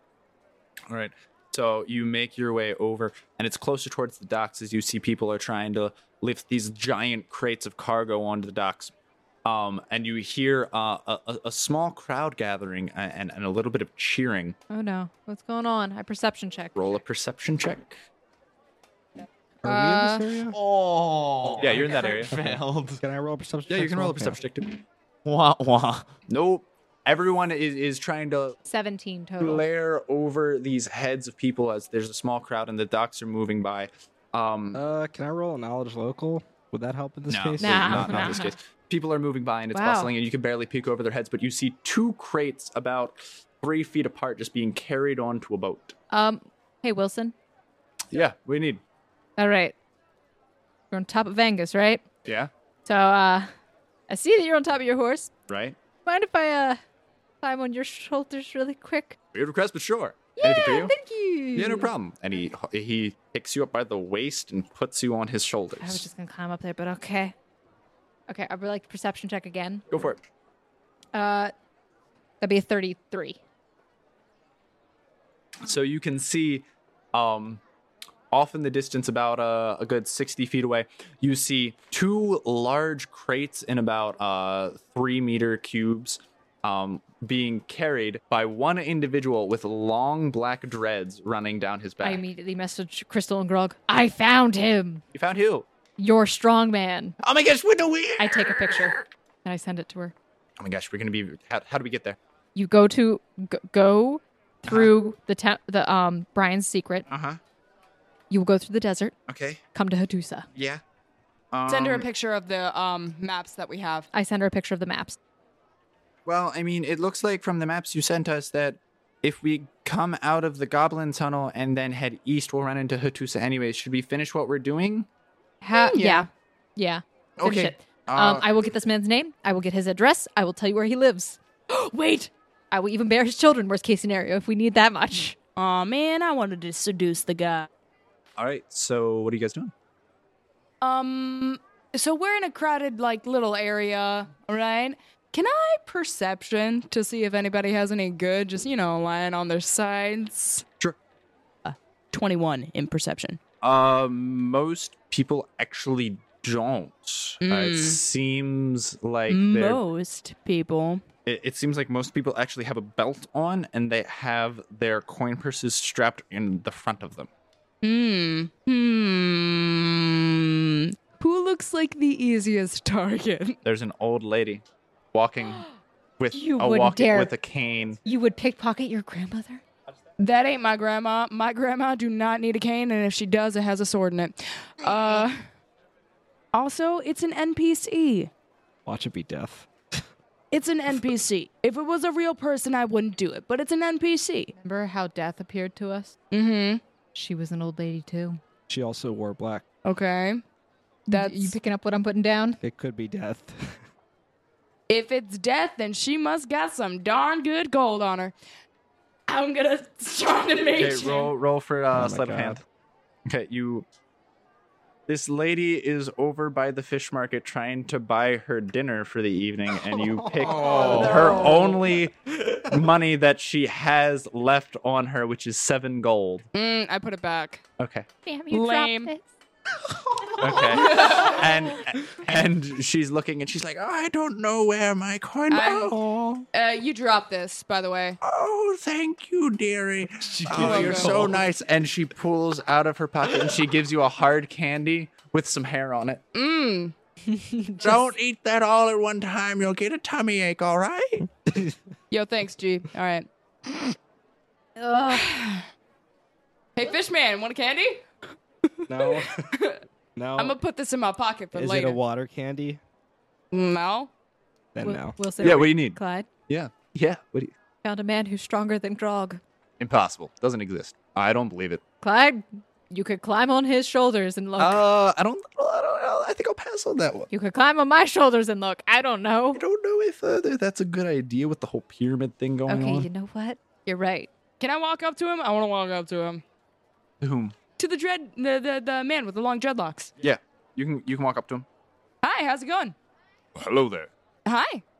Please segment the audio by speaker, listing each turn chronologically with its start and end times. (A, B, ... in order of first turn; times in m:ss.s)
0:00.9-0:08.9 A
0:09.4-0:14.6 A
0:14.7-0:16.8 B
0:16.7-0:18.0 A
0:19.6-0:20.6 C
0:19.6-0:20.3 B
0:20.5-0:23.0 D
0:21.6-0:22.3 A
0:22.3-0:24.4 C
0:23.7-0:24.8 A
0:25.2-0:26.1 D
0:26.3-0:28.6 A
0:28.6-0:29.6 B
0:29.4-0:34.8 A
0:34.7-0:38.4 C
0:37.3-0:45.9 A
0:37.6-0:38.5 B
0:39.7-0:40.1 B
0:46.1-0:47.3 B
0:48.1-0:48.8 A
0:49.4-0:49.7 B
0:50.9-0:52.0 B
0:52.2-0:52.5 A
0:52.8-0:53.5 B
0:54.1-0:55.3 B
0:55.5-0:55.8 A
0:56.0-0:56.8 B
0:57.4-0:59.2 B
0:59.3-1:00.9 A
1:00.4-1:01.9 B
1:01.5-1:06.0 A
1:05.8-1:07.3 B
1:08.3-1:09.8 B
1:09.9-1:10.2 A
1:11.1-1:11.5 B
1:12.4-1:13.4 B
1:15.6-1:17.6 A
1:18.3-1:32.2 A
1:32.0-1:35.0 B
1:35.1-1:35.7 A
1:36.0-1:37.2 B
1:37.2-1:39.0 A
1:38.2-1:40.1 B
1:40.6-1:42.2 A
1:42.5-1:47.1 B
1:47.1-1:47.4 A
1:48.3-1:49.1 B
1:49.3-1:49.6 A
1:49.7-1:50.5 B
1:50.5-1:50.8 A
1:51.5-1:52.1 A
1:51.7-1:54.1 E
1:54.1-1:55.2 B
1:56.2-2:05.1 A
2:05.6-2:11.4 B
2:05.7-2:06.3 E
2:07.4-2:08.4 A
2:11.9-2:12.3 E
2:12.7-2:15.4 B
2:15.6-2:17.7 E
2:18.4-2:19.7 A
2:20.8-2:30.6 E
2:31.6-2:33.4 E
2:33.6-2:39.8 A
2:37.4-2:38.0 E
2:39.3-2:41.0 E
2:41.2-2:47.3 A
2:47.8-2:53.6 E
2:53.6-2:55.6 A
2:56.2-2:58.0 A
2:56.3-2:57.3 B
2:58.0-2:59.6 B
3:00.2-3:05.4 E
3:06.5-3:08.3 E
3:08.8-3:10.0 C
3:10.5-3:14.5 E
3:14.6-3:16.2 B
3:16.3-3:16.8 E
3:17.1-3:18.4 B
3:18.7-3:19.6 C
3:19.8-3:20.4 E
3:21.1-3:22.6 B
3:21.1-3:21.6 E
3:22.6-3:23.8 C
3:24.9-3:28.3 E
3:29.3-3:31.3 E
3:30.8-3:32.6 A
3:31.9-3:32.6 C
3:33.2-3:33.8 A
3:35.1-3:46.5 A
3:40.5-3:41.6 D
3:46.5-3:47.6 E
3:47.8-3:48.0 A
3:48.2-3:49.2 B
3:48.5-3:49.1 E
3:50.4-3:56.4 A
3:50.6-3:51.4 E
3:55.5-3:56.0 E
3:56.5-3:58.2 E
3:58.2-4:06.2 A
4:00.5-4:01.0 C
4:00.5-4:01.3 E
4:06.3-4:06.9 E
4:07.3-4:08.0 B
4:07.8-4:11.3 A
4:11.5-4:11.8 C
4:12.1-4:13.9 E
4:14.8-4:15.3 B
4:15.1-4:15.6 E
4:16.8-4:18.0 E
4:18.9-4:19.5 C
4:19.0-4:19.8 E
4:20.2-4:20.6 C
4:20.4-4:22.0 E
4:21.5-4:22.8 C
4:23.5-4:24.1 E
4:24.7-4:25.2 C
4:24.8-4:26.3 B
4:25.4-4:27.5 A
4:27.8-4:29.4 B
4:29.8-4:31.8 A
4:32.0-4:34.8 B
4:34.6-4:37.3 A
4:37.3-4:39.6 B
4:39.5-4:43.1 A
4:42.7-4:44.3 B
4:44.6-4:46.4 E
4:47.2-4:47.5 A
4:47.8-4:50.1 E
4:50.2-4:51.6 A
4:52.2-4:52.9 E
4:53.5-4:54.1 A
4:54.4-4:54.8 E